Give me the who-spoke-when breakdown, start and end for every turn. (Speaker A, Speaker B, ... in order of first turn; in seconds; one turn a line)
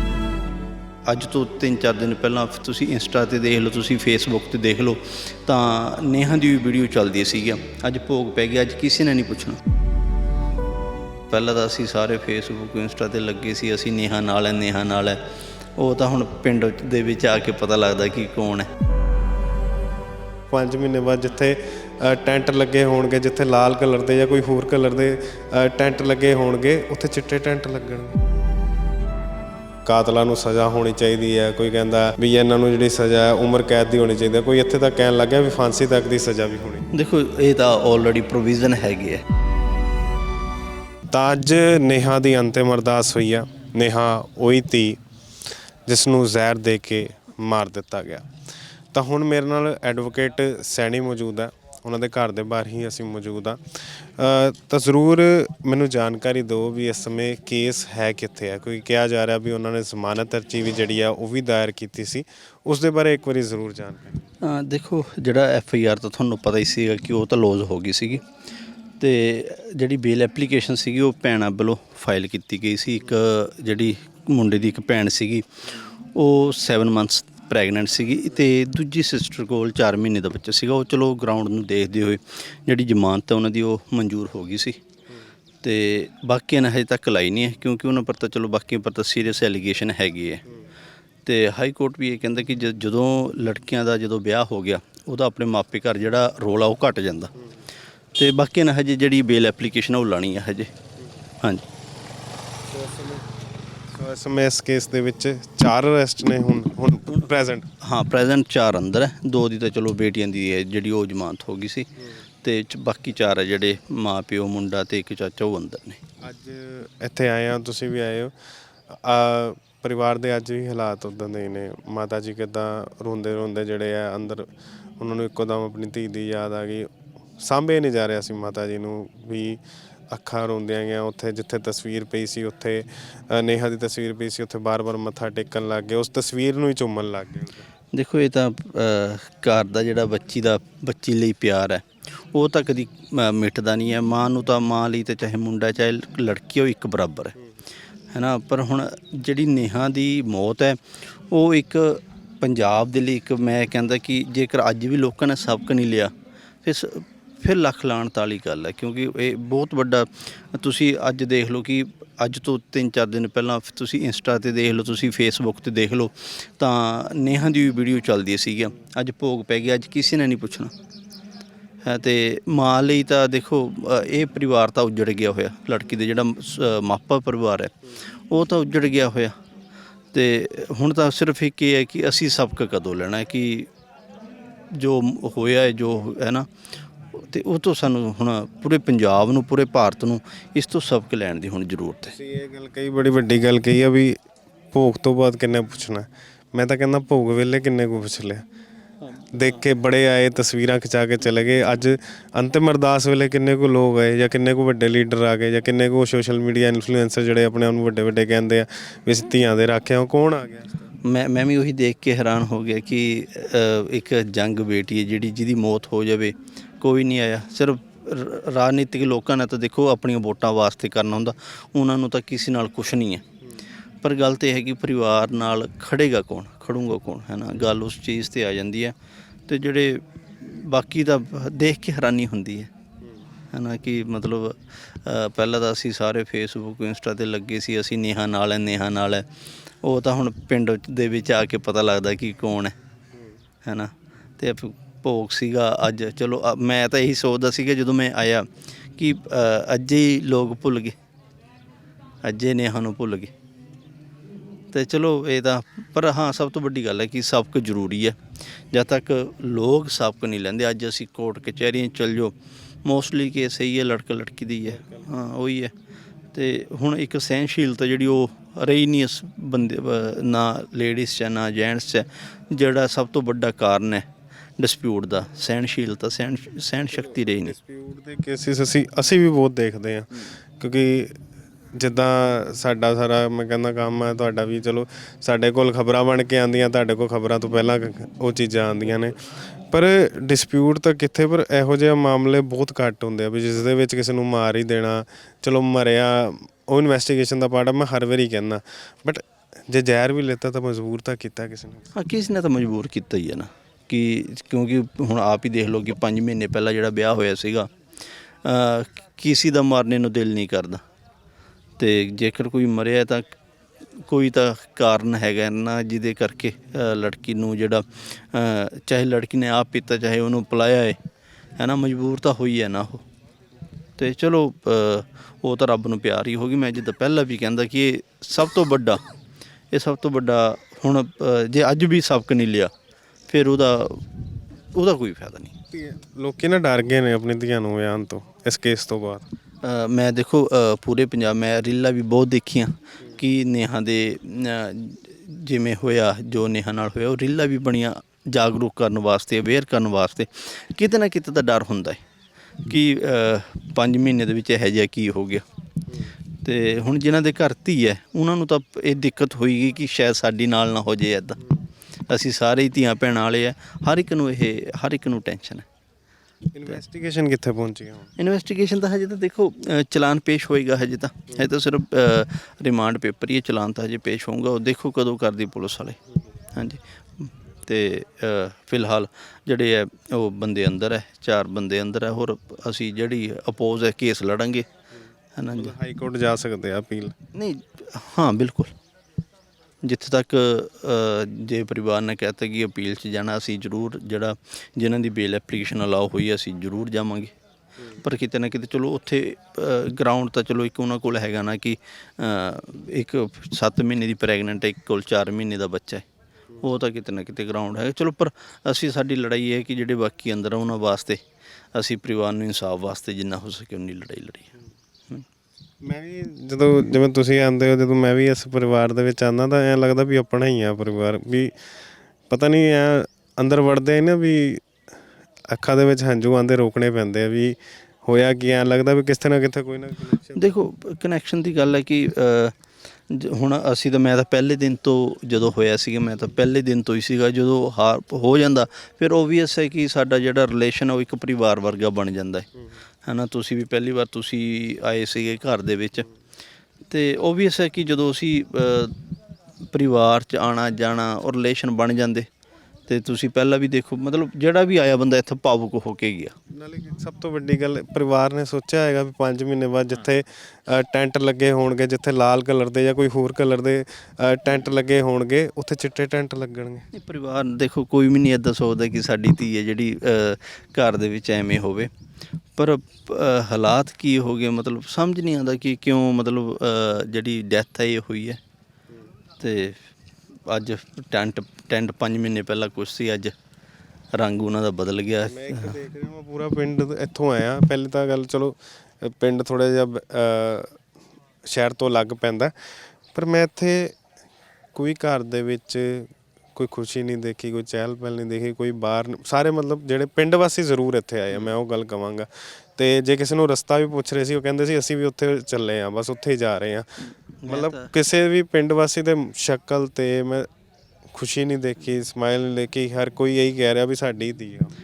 Speaker A: 1.1-9.6
Speaker A: 11.3-15.2
Speaker A: 15.8-18.7
Speaker B: 20.5-28.2
Speaker B: 29.9-36.8
Speaker A: 36.9-39.2
Speaker B: 41.1-45.0
Speaker B: 45.9-48.3
Speaker B: 48.9-64.2
Speaker A: 64.4-68.2
Speaker A: 69.0-75.5
Speaker A: 76.1-84.8
Speaker A: 85.6-90.4
Speaker A: 91.2-97.3
Speaker A: 98.1-100.7
Speaker B: 102.7-103.2
Speaker B: 103.9-107.7
Speaker A: 107.8-111.9
Speaker A: 112.4-116.0
Speaker B: 116.2-118.3
Speaker B: 118.9-137.7
Speaker A: 137.9-147.3
Speaker A: 148.1-156.1
Speaker A: 156.6-170.7
Speaker A: 171.8-179.3
Speaker A: 180.1-183.7
Speaker A: 184.7-186.5
Speaker A: 187.2-192.1
Speaker B: 192.1-194.2
Speaker B: 194.7-198.4
Speaker A: 199.2-199.5
Speaker B: 199.3-210.9
Speaker A: 211.0-223.2
Speaker A: 224.0-228.9
Speaker A: 229.5-232.7
Speaker A: 233.5-239.2
Speaker A: 239.8-242.8
Speaker A: 243.7-250.9
Speaker A: 252.2-253.3
Speaker A: 254.7-258.2
Speaker A: 258.7-262.3
Speaker A: 262.9-265.7
Speaker B: 264.8-265.0
Speaker A: 266.3-274.1
Speaker A: 274.6-277.6
Speaker B: 276.9-281.2
Speaker B: 281.8-301.9
Speaker A: 301.9-307.7
Speaker A: 308.4-310.8
Speaker A: 311.8-313.3
Speaker A: 314.0-321.0
Speaker A: 321.6-323.1
Speaker A: 324.0-329.1
Speaker A: 329.7-332.7
Speaker A: 333.3-334.1
Speaker A: 334.7-335.6
Speaker B: 335.7-339.2
Speaker A: 339.6-352.0
Speaker A: 352.6-355.4
Speaker A: 356.4-361.4
Speaker A: 362.1-365.6
Speaker B: 366.5-368.1
Speaker A: 368.2-376.0
Speaker A: 376.5-384.7
Speaker A: 385.4-385.7
Speaker B: 385.5-387.2
Speaker A: 387.3-388.7
Speaker A: 389.8-397.3
Speaker A: 398.0-406.1
Speaker A: 406.6-411.2
Speaker A: 411.7-414.5
Speaker B: 415.8-421.5
Speaker B: 422.3-424.7
Speaker B: 425.5-430.6
Speaker A: 430.4-432.6
Speaker A: 433.1-442.5
Speaker A: 443.1-446.1
Speaker A: 446.9-449.0
Speaker A: 449.7-452.3
Speaker A: 452.9-456.4
Speaker B: 456.5-466.9
Speaker A: 466.9-471.9
Speaker A: 472.6-478.4
Speaker A: 479.4-479.9
Speaker A: 480.5-483.4
Speaker A: 484.1-485.8
Speaker B: 485.3-490.8
Speaker B: 491.4-492.5
Speaker B: 493.1-494.0
Speaker B: 494.7-510.5
Speaker A: 507.4-507.9
Speaker B: 511.1-514.7